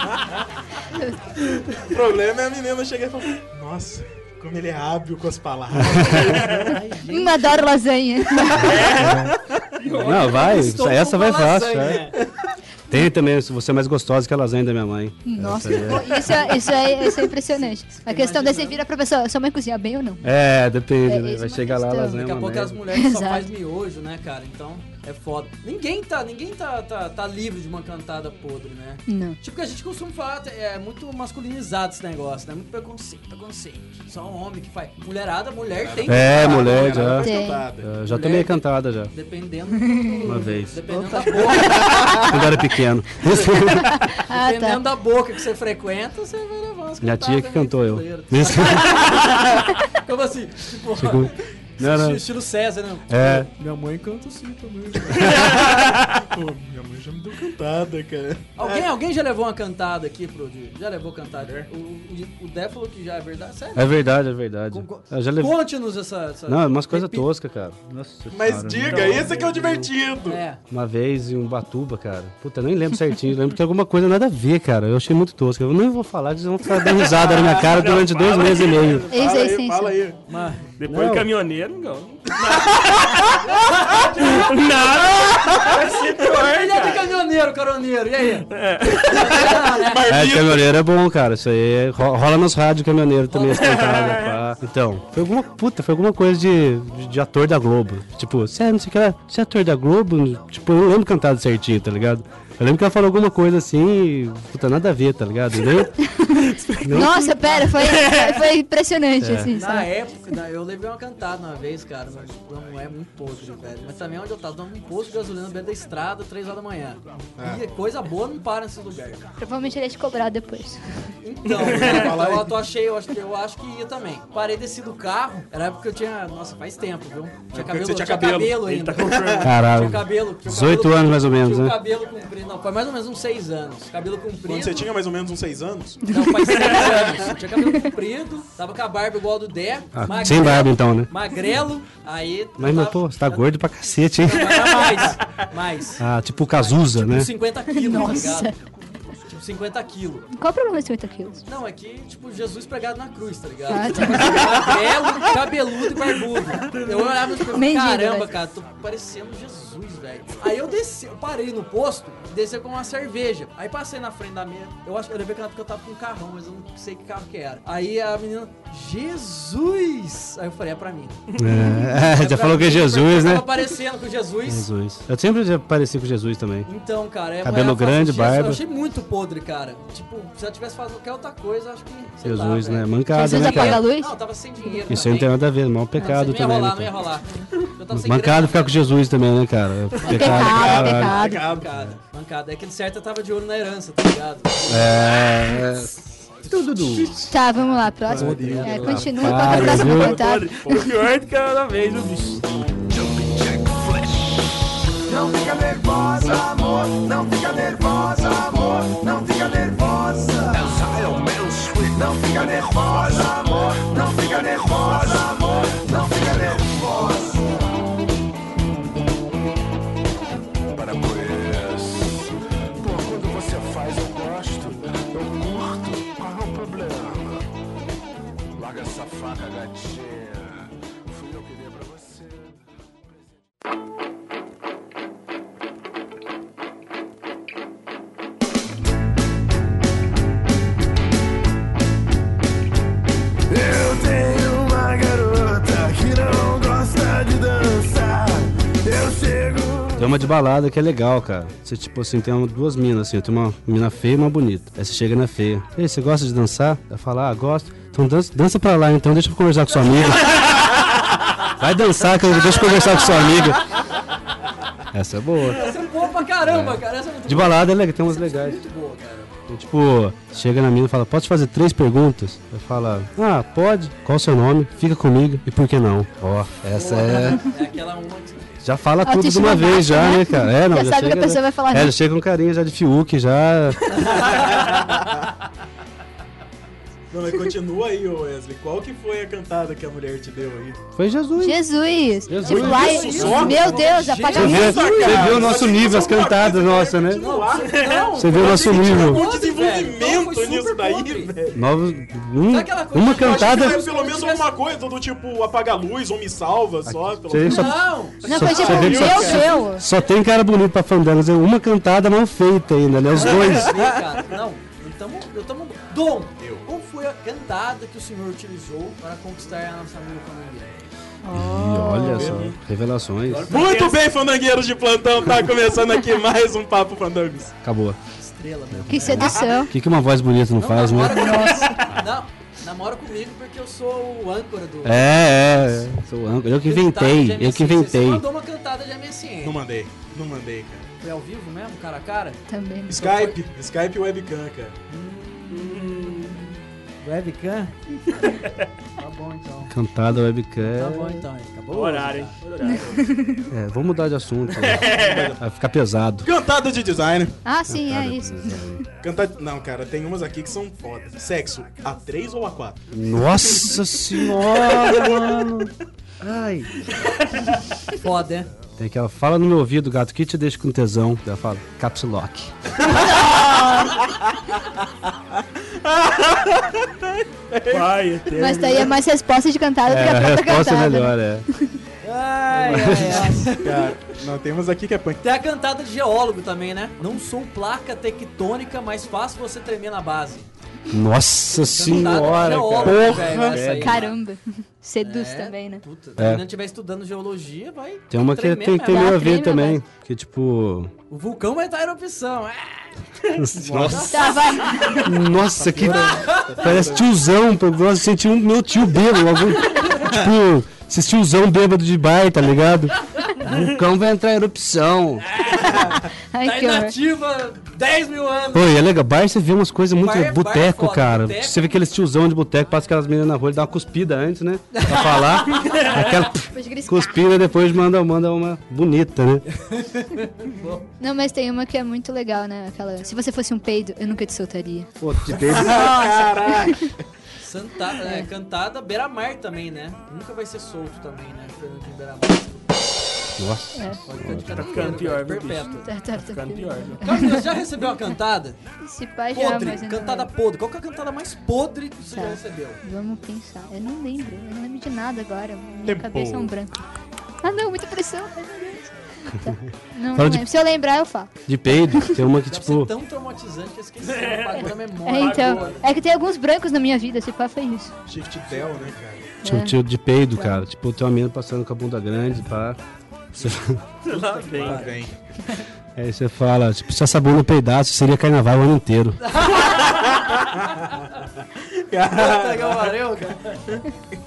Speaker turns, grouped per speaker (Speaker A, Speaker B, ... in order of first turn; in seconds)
Speaker A: 1.9-6.7, 35.7-37.9, 53.6-58.9, 61.4-61.7, 68.3-70.4, 77.4-80.2, 89.8-90.7, 121.6-122.5, 127.5-128.5, 129.0-129.4, 134.4-136.0, 190.2-191.7, 198.1-199.1, 284.2-285.0, 287.1-290.8, 292.4-301.6, 303.1-307.7, 308.3-309.5, 313.4-313.9, 316.4-316.6, 322.1-322.5, 323.5-327.5, 339.4-340.9, 342.9-344.8, 354.9-355.4, 356.2-357.4, 359.0-362.9, 383.6-385.2, 392.7-393.6, 403.7-404.0, 405.4-407.1, 435.5-436.9, 455.8-456.5, 468.1-469.3, 474.2-475.1, 481.9-482.9
Speaker B: 5.8-7.8, 9.8-12.2, 15.7-18.8, 22.1-37.3, 38.0-42.3, 44.3-55.5, 58.6-64.1, 64.7-67.3, 68.8-69.5, 70.2-70.6, 80.3-80.7, 83.7-84.5, 85.6-90.0, 93.3-94.1, 109.5-119.3, 121.2-134.9, 136.1-143.5, 144.2-148.5, 149.2-150.3, 151.5-171.2, 171.9-174.7, 176.7-185.4, 185.9-188.9, 189.9-195.6, 196.4-199.4, 265.5-269.3, 276.7-278.6, 283.9-284.9, 292.4-295.5, 297.1-301.3, 302.5-304.5, 307.4-309.5, 313.1-320.8, 323.3-323.7, 328.2-329.5, 330.6-335.9, 336.6-339.6, 341.0-343.4, 344.9-345.9, 347.0-347.9, 349.0-349.7, 350.6-352.4, 367.9-368.5, 382.0-383.9, 385.2-390.5, 391.7-394.1, 395.0-399.4, 401.1-404.9, 405.8-406.9, 415.3-418.8, 420.0-421.8, 424.7-425.8, 429.5-430.9, 437.4-443.0, 444.1-445.9, 447.0-448.6, 449.3-452.8, 462.5-465.9, 474.1-474.9, 479.2-480.0, 482.1-483.8
Speaker C: 5.8-6.3, 8.9-9.3, 9.9-12.0, 12.9-16.3, 20.2-22.8, 36.1-39.1, 40.2-44.0, 47.0-49.2, 51.0-52.3, 53.1-53.5, 63.8-65.6, 66.5-69.9, 70.7-79.1, 80.9-81.3, 90.1-106.0, 106.8-107.2, 109.2-109.5, 129.4-131.8, 139.9-141.1, 142.6-144.7, 146.0-147.3, 171.4-173.6, 174.4-176.7, 177.4-178.6, 182.2-183.9, 184.9-187.0, 187.9-191.2, 194.7-197.3, 198.7-200.2, 250.0-260.7, 261.5-263.7, 264.9-265.7, 266.4-268.6, 269.5-277.4, 278.6-284.1, 290.9-291.6, 292.3-293.6, 294.3-297.3, 298.1-299.2, 301.5-303.8, 306.9-313.8, 321.3-323.6, 327.6-328.0, 328.7-331.4, 334.8-338.2, 349.7-351.2, 353.5-356.3, 357.7-358.8, 362.9-366.7, 368.8-372.5, 379.9-381.5, 382.6-383.4, 390.9-394.1, 396.2-396.4, 398.1-400.9, 403.4-404.3, 405.0-415.2, 418.5-429.4, 435.0-436.1, 443.4-445.0, 460.1-460.5, 461.5-462.9, 469.4-472.8, 473.3-473.8, 476.0-479.2
Speaker D: 7.1-8.7, 15.2-20.2, 21.0-22.2, 22.9-23.5, 29.1-29.4, 37.2-37.7, 39.8-40.3, 43.9-44.8, 79.1-80.0, 106.1-106.4, 106.9-109.9, 119.4-120.8, 147.7-148.6, 150.3-151.4, 153.7-154.7, 157.4-158.4, 183.1-184.8, 190.1-191.5, 197.2-200.9, 279.0-281.9, 291.4-295.3, 308.2-309.9, 321.2-322.4, 328.9-329.7, 331.1-331.9, 342.5-342.9, 352.6-353.4, 357.4-358.6, 373.1-373.9, 378.3-381.7, 393.6-395.8, 398.9-399.8, 404.0-405.1, 416.3-417.0, 426.4-427.1, 431.0-434.9, 438.0-438.2, 443.8-444.0, 445.8-447.5, 448.8-450.3, 452.1-456.8, 457.4-461.4, 465.0-467.9, 469.4-469.8, 470.3-470.6
Speaker E: 8.7-9.3, 9.8-10.7, 77.8-79.1, 80.8-83.5, 84.2-87.1, 88.5-89.5, 93.5-94.4, 106.4-108.5, 121.5-122.2, 128.4-129.5, 136.4-137.0, 144.6-145.1, 171.4-171.7, 199.3-202.5, 297.5-298.1, 323.6-323.9, 345.5-346.4, 351.7-353.1, 354.5-355.3, 377.7-378.9, 444.5-447.0, 464.0-465.8, 474.1-474.8
Speaker F: 202.9-204.4, 205.0-217.8, 220.8-227.4, 228.6-232.5, 243.5-250.2